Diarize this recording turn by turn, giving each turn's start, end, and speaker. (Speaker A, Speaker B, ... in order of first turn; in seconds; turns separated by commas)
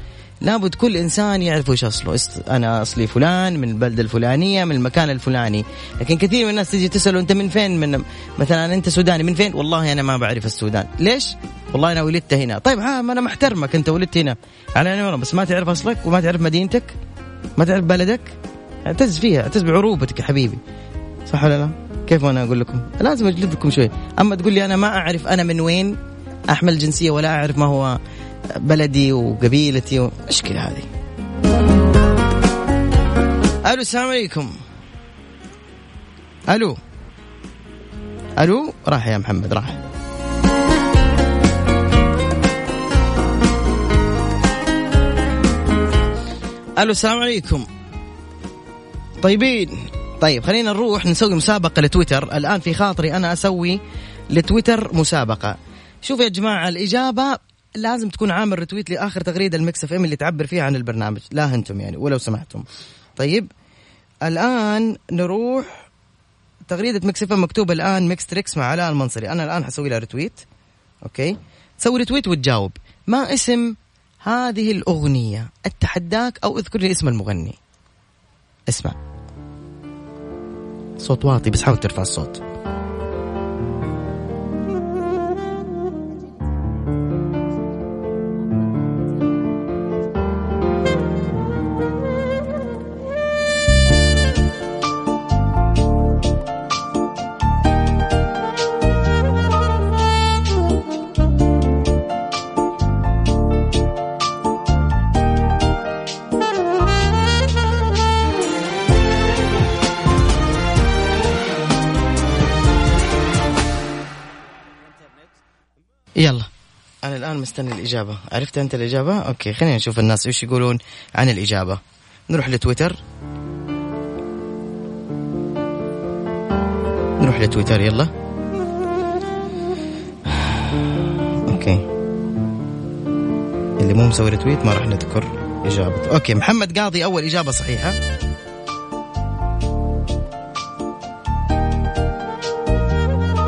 Speaker A: 0.4-16.9, Speaker A: 17.6-18.3, Speaker A: 18.8-20.6, Speaker A: 21.3-26.0, Speaker A: 26.5-28.0, Speaker A: 28.6-30.9, Speaker A: 33.6-34.5, Speaker A: 36.5-36.8, Speaker A: 38.4-39.8, Speaker A: 46.8-47.6, Speaker A: 49.2-53.8, Speaker A: 54.3-62.6, Speaker A: 63.2-63.5, Speaker A: 64.2-65.8, Speaker A: 66.7-70.4, Speaker A: 71.0-77.6, Speaker A: 78.7-79.0, Speaker A: 81.0-82.4, Speaker A: 116.2-116.5, Speaker A: 117.0-123.0, Speaker A: 127.2-128.1, Speaker A: 130.3-131.8, Speaker A: 133.8-138.0